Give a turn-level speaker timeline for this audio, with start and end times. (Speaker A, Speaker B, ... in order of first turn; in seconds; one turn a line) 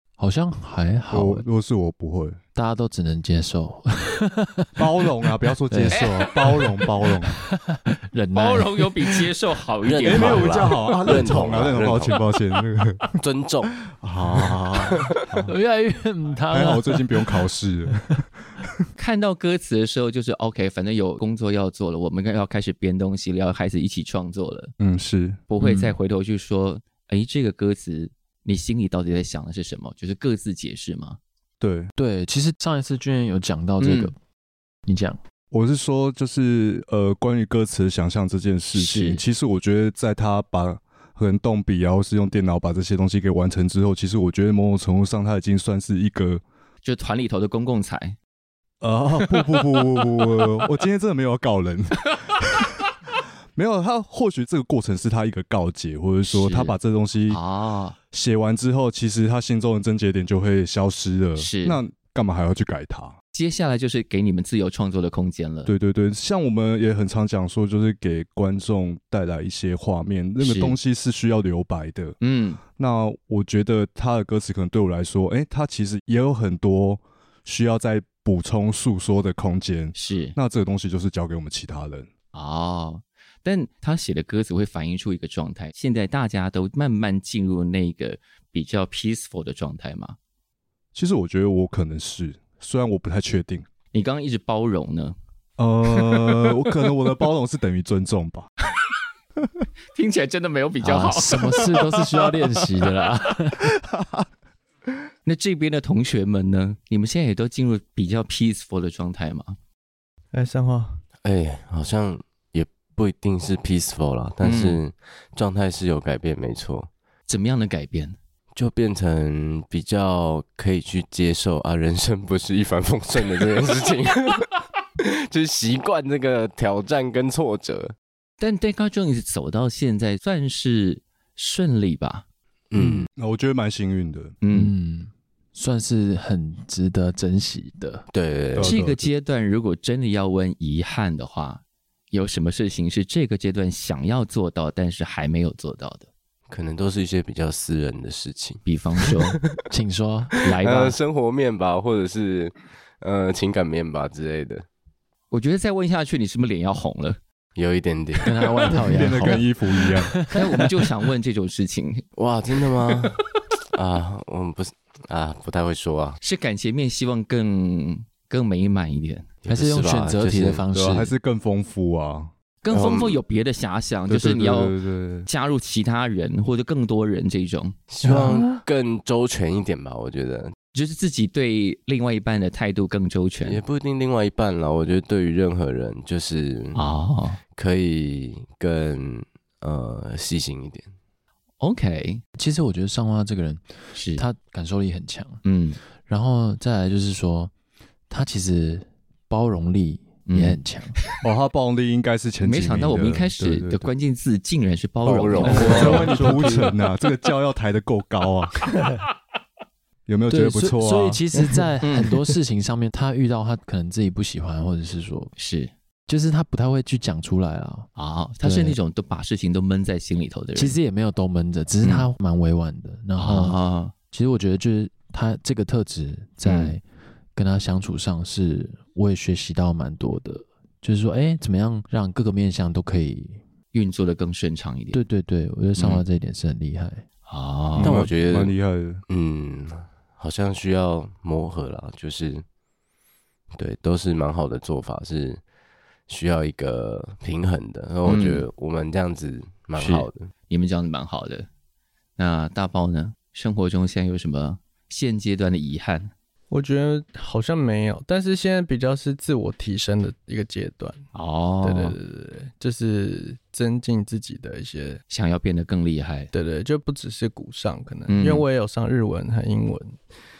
Speaker A: 0.2-1.4
Speaker B: 1.1-2.4
Speaker A: 2.6-9.2
Speaker B: 4.8-7.4
Speaker C: 5.9-6.2
Speaker C: 8.3-10.7
Speaker D: 9.8-12.2
Speaker B: 10.1-13.1
Speaker D: 13.2-13.7
Speaker B: 13.8-15.5
Speaker D: 14.8-15.2
Speaker A: 15.1-18.0
Speaker B: 16.5-18.7
Speaker C: 18.9-24.7
Speaker B: 24.8-25.4
Speaker C: 25.5-31.2
Speaker A: 25.6-25.9
Speaker B: 31.6-31.9
Speaker A: 31.9-34.1
Speaker C: 33.8-34.1
Speaker A: 34.9-35.2
Speaker B: 35.5-46.4
Speaker C: 38.8-39.2
Speaker C: 46.8-48.2
Speaker B: 48.8-52.9
Speaker B: 53.5-57.4
Speaker C: 56.3-56.8
Speaker C: 57.3-58.0
Speaker B: 58.1-63.2
Speaker C: 61.4-61.8
Speaker C: 63.3-65.7
Speaker B: 65.7-72.2
Speaker C: 70.4-70.8
Speaker C: 72.2-72.6
Speaker B: 72.8-82.1
Speaker C: 79.9-80.3
Speaker C: 82.3-90.2
Speaker B: 90.9-93.7
Speaker C: 93.9-95.2
Speaker B: 95.6-98.5
Speaker C: 96.0-96.4
Speaker C: 99.9-101.8
Speaker A: 100.8-103.7
Speaker B: 103.8-104.2
Speaker C: 105.2-109.6
Speaker E: 110.3-111.0
Speaker D: 111.2-116.9
Speaker C: 114.4-114.8
Speaker C: 117.3-118.2
Speaker D: 118.5-127.9
Speaker C: 128.4-132.2
Speaker D: 132.7-133.1
Speaker B: 133.2-134.3
Speaker C: 134.4-134.7
Speaker A: 134.5-138.1
Speaker D: 138.1-138.7
Speaker B: 138.5-139.0
Speaker C: 138.6-146.1
Speaker D: 146.5-149.3
Speaker C: 148.6-149.4
Speaker A: 149.7-150.4
Speaker C: 150.4-151.0
Speaker D: 150.5-154.7
Speaker C: 155.3-157.2
Speaker D: 157.6-158.5
Speaker A: 158.2-160.7
Speaker B: 158.8-160.2
Speaker C: 160.3-162.0
Speaker D: 162.2-163.2
Speaker D: 163.7-166.2
Speaker C: 166.2-169.3
Speaker D: 169.4-171.1
Speaker A: 169.5-171.1
Speaker B: 170.8-172.3
Speaker C: 172.6-177.8
Speaker D: 172.7-173.2
Speaker B: 174.1-175.3
Speaker D: 177.9-180.6
Speaker A: 178.1-178.4
Speaker C: 180.7-183.6
Speaker D: 183.4-186.8
Speaker C: 186.7-187.4
Speaker D: 187.6-190.9
Speaker C: 191.6-192.2
Speaker A: 192.4-195.4
Speaker C: 193.9-194.2
Speaker C: 195.4-195.8
Speaker A: 196.0-197.5
Speaker A: 198.1-201.0
Speaker C: 200.3-201.2
Speaker B: 201.2-203.9
Speaker C: 202.4-206.1
Speaker D: 205.0-206.2
Speaker B: 205.3-208.6
Speaker E: 205.5-206.7
Speaker B: 210.1-211.2
Speaker A: 210.3-215.3
Speaker C: 211.8-212.2
Speaker C: 215.4-215.7
Speaker A: 216.1-217.9
Speaker C: 218.0-220.8
Speaker A: 218.4-218.8
Speaker A: 220.6-223.6
Speaker C: 221.8-222.1
Speaker C: 223.2-223.9
Speaker A: 224.1-226.8
Speaker C: 226.4-226.8
Speaker A: 227.3-233.4
Speaker C: 233.7-235.0
Speaker A: 234.9-237.0
Speaker C: 235.8-236.0
Speaker C: 237.3-238.1
Speaker B: 237.8-239.0
Speaker D: 237.8-238.5
Speaker D: 239.1-242.4
Speaker D: 243.6-245.4
Speaker D: 246.1-250.3
Speaker C: 248.1-248.4
Speaker C: 249.8-251.5
Speaker C: 252.2-256.1
Speaker E: 256.5-261.0
Speaker C: 261.1-261.9
Speaker E: 261.6-265.0
Speaker C: 265.1-266.3
Speaker E: 266.3-270.0
Speaker C: 268.1-268.4